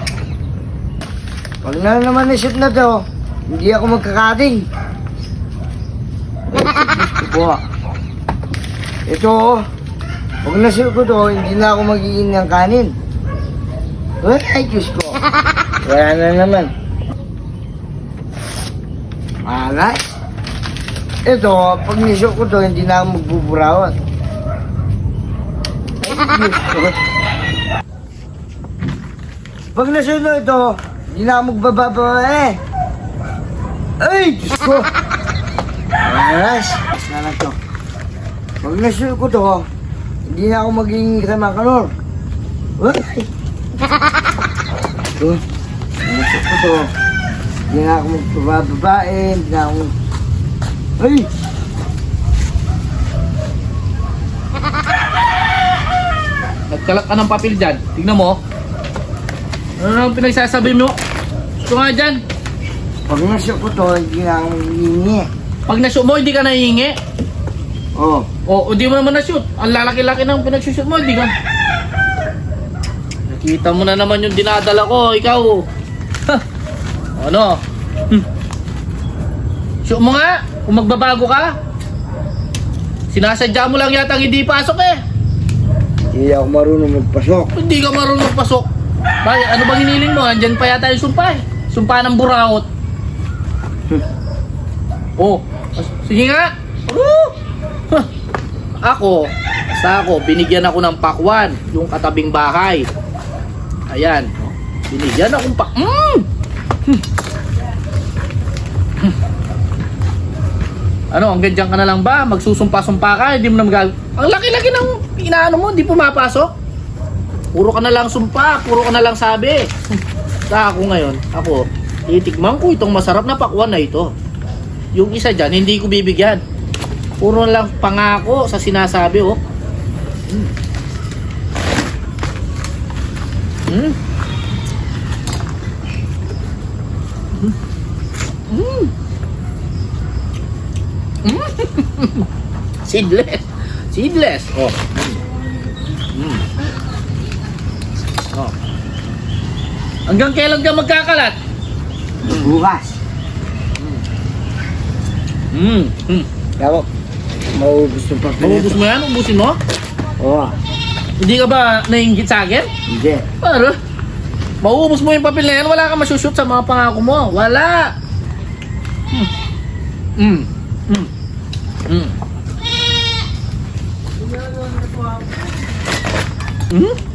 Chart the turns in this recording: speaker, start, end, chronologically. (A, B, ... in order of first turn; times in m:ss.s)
0:01.6-0:04.7 A
0:06.5-0:07.6 A
0:09.1-0:09.6 A
0:10.4-0:12.9 A
0:14.2-0:15.2 A
0:15.8-0:16.7 A
0:19.4-0:20.1 A
0:21.3-0:23.9 A
0:26.0-0:27.0 A
0:29.8-0:32.6 A
0:34.0-0:34.9 A
0:36.0-0:37.6 A
0:38.6-0:39.7 A
0:40.3-0:41.9 A
0:42.8-0:43.3 A
0:46.0-0:46.9 A
0:47.7-0:49.9 A
0:51.0-0:51.3 A
0:56.7-0:58.4 B
0:59.8-1:01.0 B
1:01.6-1:02.2 B
1:03.1-1:05.3 A
1:05.7-1:07.0 B
1:08.0-1:08.3 A
1:08.5-1:11.3 B
1:13.3-1:15.7 B
1:17.2-1:18.3 B
1:19.8-1:21.6 B
1:23.1-1:25.0 B
1:26.1-1:27.5 A
1:27.6-1:28.7 B
1:29.2-1:32.7 B
1:35.2-1:37.4 B
1:38.8-1:42.9 B
1:43.9-1:46.3 B
1:51.1-1:56.5 B
1:57.5-2:00.0 B
2:00.5-2:04.1 B
2:05.0-2:06.4 B
2:07.2-2:09.4 B
2:13.7-2:14.0 B
2:18.5-2:18.9 B
2:21.2-2:22.3 B
2:22.8-2:25.2 B
2:26.1-2:26.5 B
2:30.1-2:31.4 B
2:32.2-2:33.0 A
2:32.3-2:32.5 B
2:35.5-2:36.3 B
2:36.6-2:36.9 A
2:37.5-2:38.8 A
2:38.4-2:39.6 B
2:40.2-2:40.5 A
2:41.2-2:42.7 B
2:42.9-2:43.3 A
2:43.4-2:43.8 B
2:44.6-2:47.9 B
2:50.2-2:51.1 B
2:51.9-2:52.2 B
2:56.7-2:57.0 B